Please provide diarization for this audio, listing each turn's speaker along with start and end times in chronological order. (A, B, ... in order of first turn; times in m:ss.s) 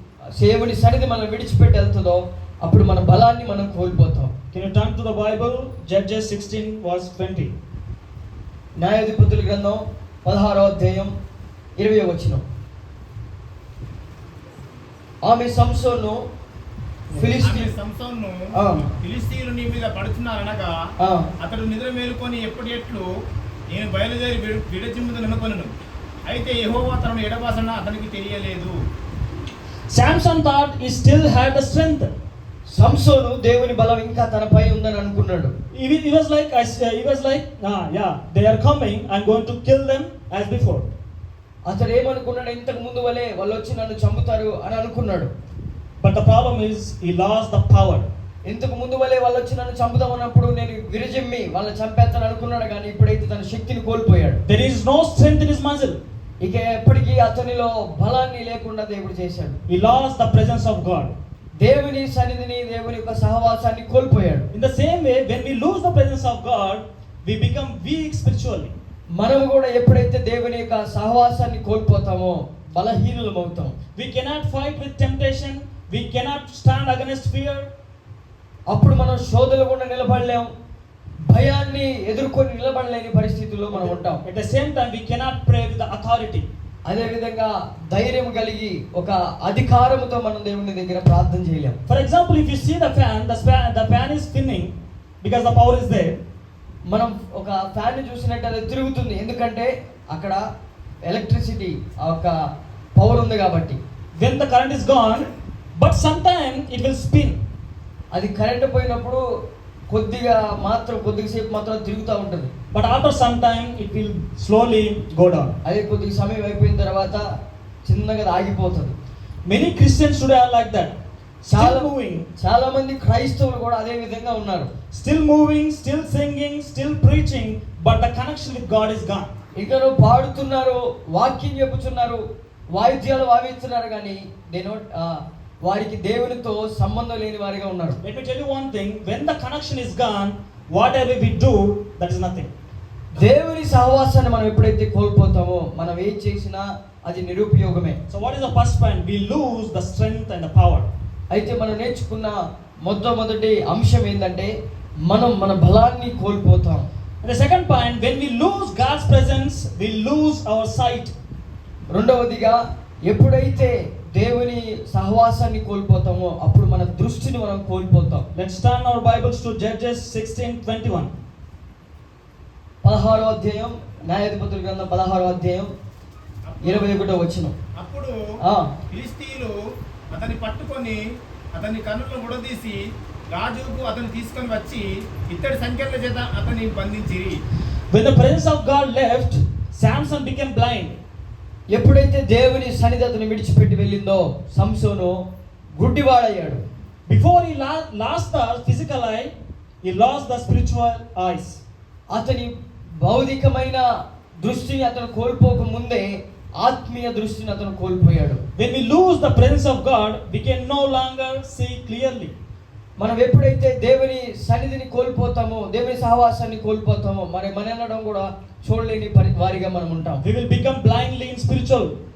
0:00.4-0:04.3 A
0:04.5-0:07.5 B
0:08.8-0:11.1 A
0:11.8-0:12.4 A
0:15.2-0:16.2 A
0:17.1-0:17.7 A
0:17.4-0:20.7 C
0:18.5-0:18.8 A
0:21.0-0:21.3 A
0:21.4-0:23.1 C
0:23.7-0:25.7 C
0:26.3-0:28.8 C
0:29.9-0:32.1 B
0:32.7-0:35.5 A
0:35.7-0:40.9 B
0:41.6-0:45.3 A
0:46.0-0:48.1 B
0:48.4-0:54.4 A
0:54.4-0:56.0 B
0:56.4-0:59.6 A
0:59.7-1:01.1 B
1:01.6-1:04.4 A
1:04.5-1:08.7 B
1:09.1-1:13.7 A
1:14.0-1:17.7 B
1:18.7-1:20.5 A
1:21.3-1:24.2 A
1:23.7-1:26.5 B
1:26.8-1:31.8 A
1:31.9-1:36.2 B
1:36.9-1:40.4 A
1:41.0-1:42.3 A
1:43.0-1:43.8 A
1:44.2-1:47.4 B
1:48.1-1:49.2 A
1:49.9-1:52.5 A
1:52.7-1:55.6 B
1:55.6-1:57.2 A
1:57.8-1:58.9 A
1:59.4-2:02.2 B
2:01.5-2:04.7 A
2:04.9-2:09.3 B
2:09.6-2:18.0 A
2:18.0-2:22.5 B
2:23.2-2:28.0 A
2:28.1-2:30.9 B
2:31.3-2:34.5 A
2:35.0-2:36.9 A
2:37.2-2:41.1 B
2:41.9-2:48.2 A
2:48.3-2:51.1 B
2:52.8-2:55.7 A
2:56.5-2:57.1 C
2:56.6-2:57.5 A
2:57.8-2:58.1 C
2:58.4-2:58.7 A
2:58.9-2:59.5 C
3:00.1-3:01.0 C
3:01.5-3:02.8 C
3:03.3-3:07.4 C
3:07.9-3:11.0 B
3:11.7-3:15.2 A
3:15.8-3:16.6 A
3:17.1-3:21.6 B
3:22.1-3:23.8 A
3:24.4-3:28.4 A
3:28.6-3:32.3 B
3:33.0-3:40.2 A
3:40.2-3:41.9 B